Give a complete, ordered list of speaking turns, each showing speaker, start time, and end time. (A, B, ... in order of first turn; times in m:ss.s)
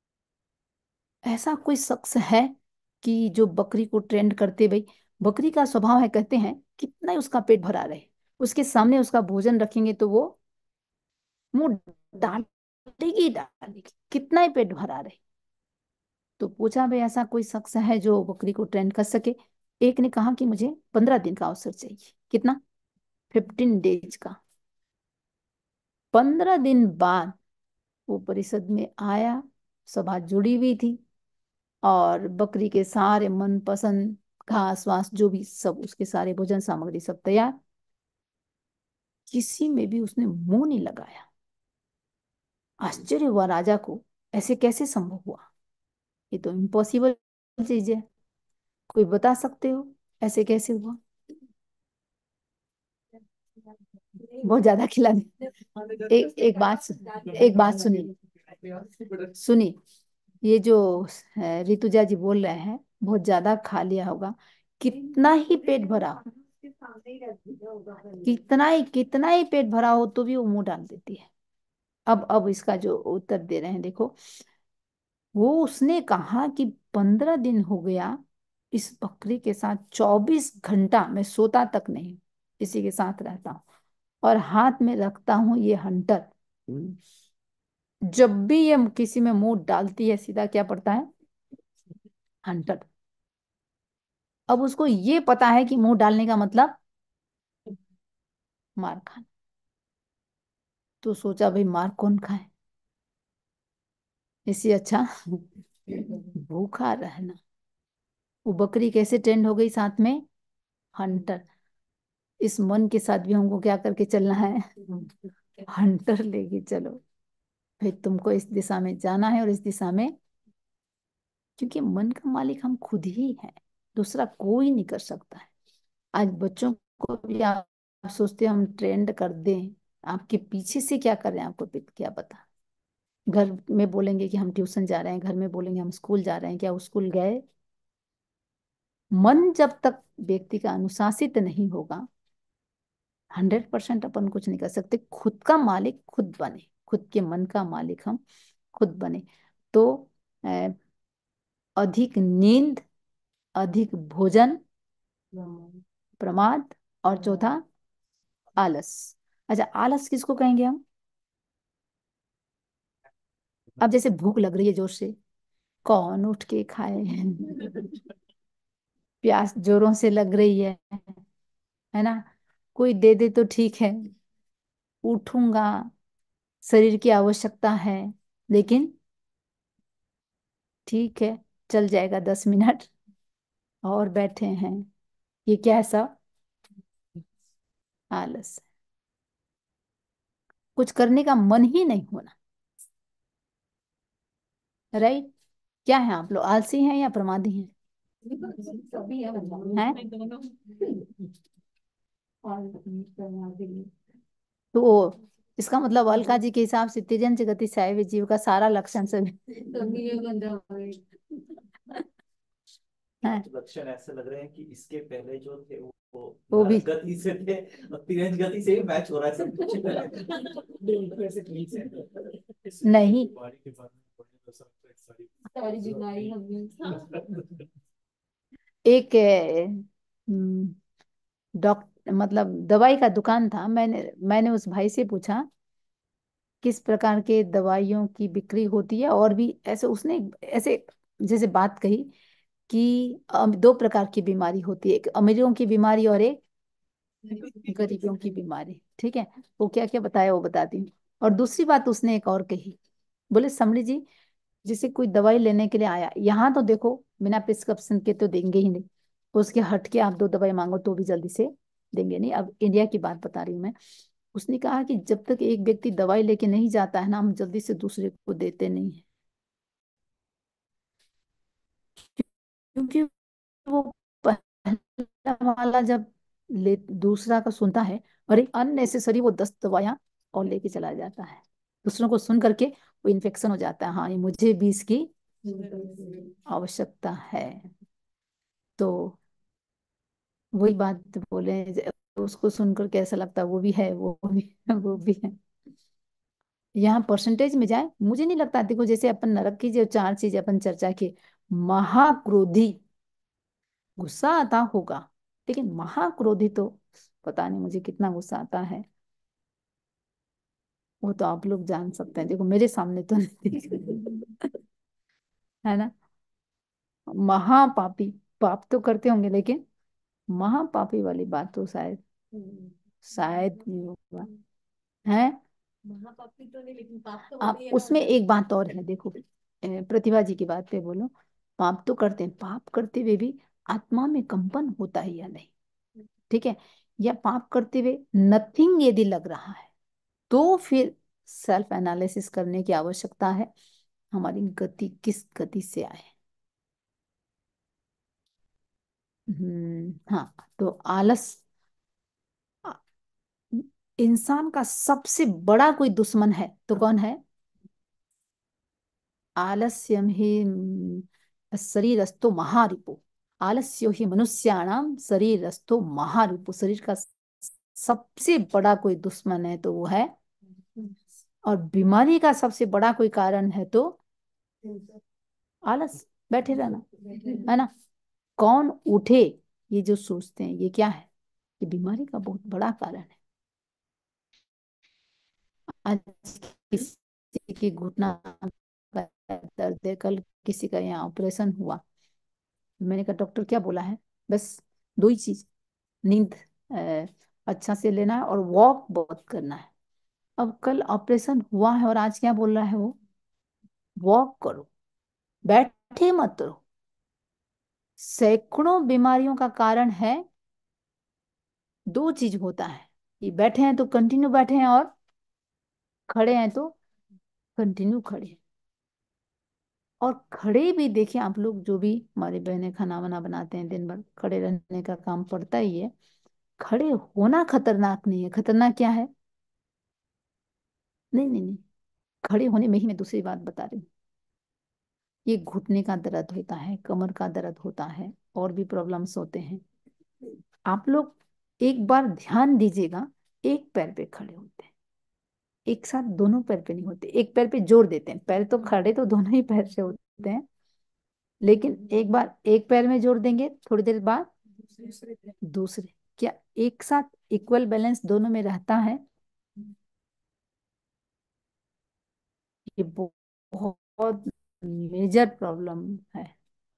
0:01.2-0:10.4 A
0:11.5-0:15.2 A
0:16.4-0:22.6 A
0:23.3-0:24.4 A
0:26.1-0:27.4 A
0:28.1-0:31.0 A
0:31.8-0:37.6 A
0:39.3-0:41.3 A
0:42.8-0:45.5 A
0:46.3-0:48.0 A
0:48.9-0:51.0 A
0:53.6-0:54.4 B
0:54.4-0:55.3 A
0:56.1-0:58.1 A
0:57.0-0:57.5 B
0:59.4-0:59.8 A
1:00.4-1:06.2 A
1:05.5-1:08.3 B
1:08.2-1:11.3 A
1:12.1-1:14.4 A
1:15.4-1:18.2 A
1:18.7-1:23.6 A
1:24.2-1:27.0 A
1:28.1-1:31.1 A
1:32.4-1:32.8 A
1:34.5-1:36.8 A
1:38.8-1:39.3 A
1:41.0-1:42.5 A
1:44.5-1:47.4 A
1:48.5-1:50.2 A
1:51.0-1:51.4 A
1:52.4-1:54.8 A
1:55.7-1:57.0 A
1:57.8-2:00.1 A
2:01.6-2:05.5 A
2:06.2-2:12.4 A
2:13.3-2:17.4 A
2:19.2-2:22.1 A
2:23.3-2:28.2 A
2:28.7-2:30.8 A
2:31.8-2:32.8 A
2:33.6-2:34.6 A
2:35.4-2:35.7 B
2:36.2-2:37.6 A
2:38.6-2:40.8 A
2:43.8-2:45.2 A
2:45.8-2:47.9 A
2:49.2-2:51.0 A
2:51.9-2:54.1 A
2:55.0-2:55.9 A
2:56.7-2:59.0 A
3:00.9-3:02.9 A
3:03.8-3:04.9 A
3:05.5-3:06.1 A
3:08.1-3:08.6 A
3:10.8-3:12.3 A
3:14.9-3:15.3 A
3:15.9-3:17.7 A
3:18.3-3:21.0 B
3:19.7-3:20.0 A
3:22.4-3:23.9 B
3:24.7-3:29.7 A
3:29.8-3:31.0 B
3:33.4-3:41.9 C
3:36.5-3:36.8 A
3:42.8-3:43.3 A
3:43.4-3:45.2 C
3:45.5-3:47.0 B
3:48.9-3:50.8 A
3:51.6-3:55.5 A
3:56.6-4:02.1 A
4:02.7-4:06.4 A
4:07.3-4:12.8 A
4:13.3-4:14.0 A
4:14.6-4:23.8 A
4:24.3-4:29.0 A
4:32.2-4:33.1 A
4:33.6-4:45.1 A
4:45.5-4:46.3 B
4:46.5-4:47.7 A
4:48.8-4:49.2 A
4:50.5-4:55.4 A
4:56.8-5:02.8 A
5:04.0-5:08.9 A
5:11.0-5:14.5 A
5:15.6-5:15.9 A
5:17.1-5:19.6 A
5:20.3-5:22.0 A
5:22.4-5:22.7 B
5:23.1-5:24.3 A
5:25.1-5:25.4 A
5:25.8-5:28.1 B
5:27.4-5:35.5 A
5:36.3-5:39.7 A
5:40.3-5:43.5 A
5:44.1-5:46.1 A
5:49.3-5:51.4 A
5:53.5-5:57.2 A
5:59.4-6:10.1 A
6:11.4-6:14.0 A
6:15.7-6:16.8 A
6:17.4-6:17.7 A
6:18.4-6:21.1 A
6:21.6-6:23.2 A
6:25.8-6:31.8 A
6:32.8-6:35.5 A
6:36.0-6:39.7 A
6:40.4-6:43.0 A
6:44.0-6:44.7 A
6:45.5-6:46.6 A
6:48.0-6:50.3 A
6:51.9-6:54.9 A
6:56.1-6:56.8 A
6:57.6-6:58.4 A
7:00.0-7:05.9 A
7:06.6-7:09.1 A
7:11.1-7:11.6 A
7:12.2-7:13.9 A
7:15.3-7:19.6 A
7:20.7-7:24.7 A
7:25.7-7:30.4 A
7:31.4-7:34.3 A
7:35.4-7:39.0 A
7:42.7-7:46.3 A